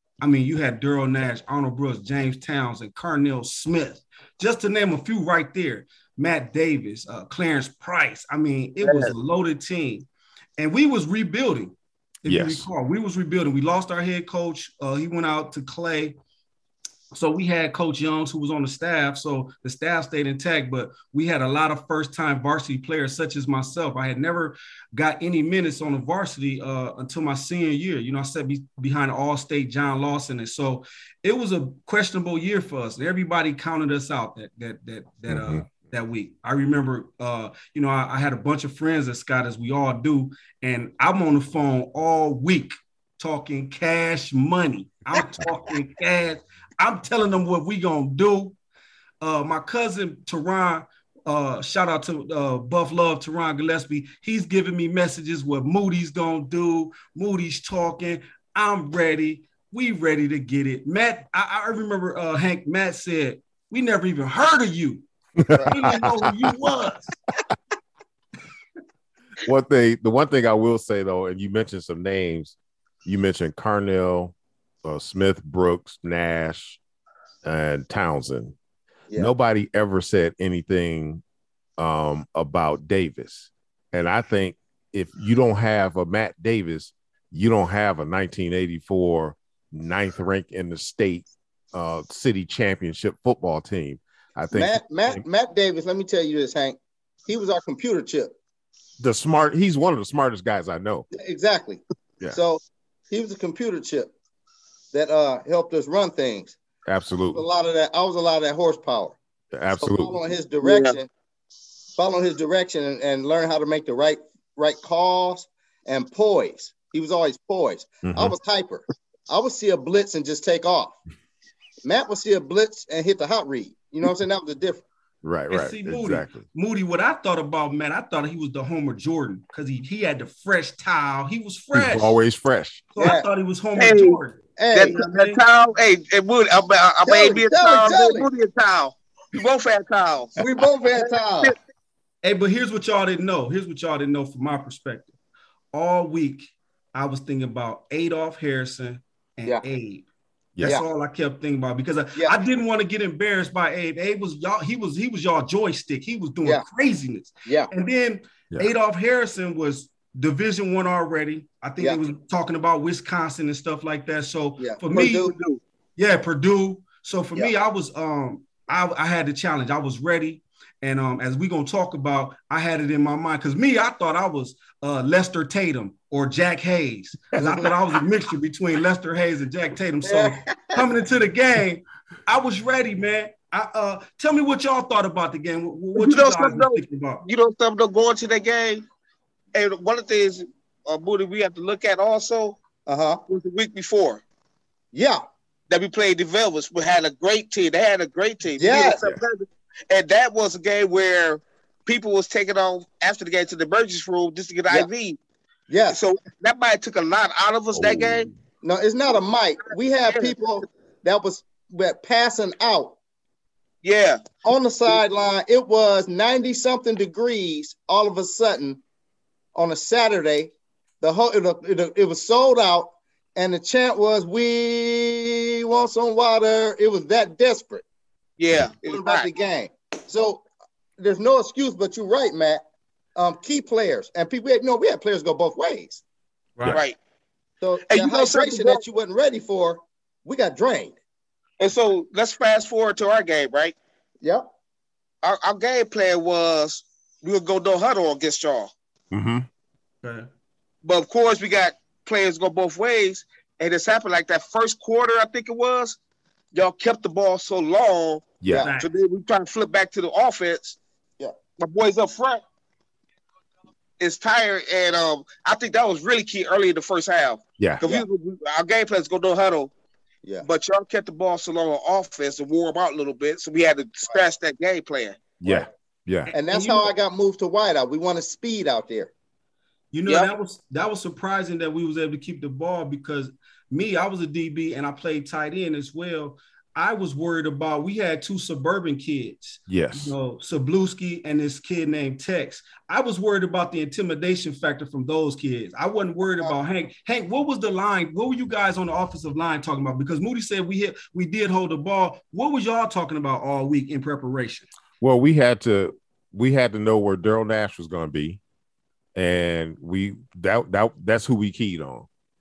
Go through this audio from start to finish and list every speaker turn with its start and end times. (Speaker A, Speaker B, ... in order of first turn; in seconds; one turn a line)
Speaker A: 0.2-10.1
Speaker B: 8.8-9.1
Speaker A: 10.6-16.2
Speaker C: 12.2-12.7
Speaker A: 17.1-48.5
Speaker C: 35.3-35.6
Speaker A: 49.2-65.0
Speaker C: 65.4-66.3
Speaker D: 65.5-65.8
Speaker A: 65.6-67.1
Speaker C: 69.4-76.8
Speaker C: 77.4-78.5
Speaker C: 79.2-81.2
Speaker C: 81.8-95.2
Speaker D: 94.5-98.3
Speaker C: 99.0-101.1
Speaker D: 101.1-104.1
Speaker D: 104.9-106.5
Speaker C: 106.8-107.4
Speaker D: 107.3-109.2
Speaker C: 109.5-110.2
Speaker D: 109.8-111.1
Speaker B: 110.6-111.0
Speaker D: 112.0-121.0
Speaker C: 118.0-118.3
Speaker D: 121.8-124.8
Speaker C: 125.2-126.4
Speaker A: 125.5-132.1
Speaker C: 131.7-132.9
Speaker A: 132.9-135.4
Speaker D: 133.0-133.2
Speaker B: 133.8-134.2
Speaker D: 134.6-134.9
Speaker B: 134.7-140.4
Speaker D: 137.0-138.3
Speaker D: 140.4-141.5
Speaker B: 140.9-141.6
Speaker A: 142.2-145.1
Speaker A: 145.7-150.0
Speaker A: 150.6-165.3
Speaker D: 164.6-165.3
Speaker B: 165.2-165.6
Speaker A: 166.0-187.2
Speaker D: 177.4-177.7
Speaker D: 180.0-180.8
Speaker B: 186.0-188.8
Speaker B: 189.5-192.6
Speaker D: 192.8-193.2
Speaker B: 193.3-194.2
Speaker D: 194.9-195.2
Speaker B: 195.7-205.2
Speaker D: 198.6-199.0
Speaker D: 205.7-206.0
Speaker B: 205.9-208.3
Speaker C: 207.7-208.3
Speaker D: 208.6-213.0
Speaker B: 209.7-210.7
Speaker B: 213.8-214.2
Speaker D: 214.4-218.8
Speaker D: 219.5-220.5
Speaker D: 221.0-227.8
Speaker B: 228.4-229.3
Speaker D: 228.9-230.4
Speaker D: 231.0-232.6
Speaker D: 233.2-236.0
Speaker B: 236.7-236.9
Speaker D: 237.6-240.9
Speaker B: 237.9-238.8
Speaker B: 241.6-243.7
Speaker B: 245.2-248.7
Speaker C: 249.1-249.5
Speaker A: 250.0-250.3
Speaker B: 250.8-256.0
Speaker B: 256.5-260.8
Speaker C: 258.4-258.7
Speaker D: 258.5-258.7
Speaker A: 258.6-258.9
Speaker B: 261.6-262.4
Speaker B: 264.0-269.7
Speaker D: 267.8-268.1
Speaker B: 270.4-275.2
Speaker C: 275.4-276.3
Speaker A: 276.3-276.9
Speaker D: 276.3-279.1
Speaker A: 279.9-304.7
Speaker C: 289.7-290.1
Speaker C: 305.0-308.4
Speaker C: 309.1-312.1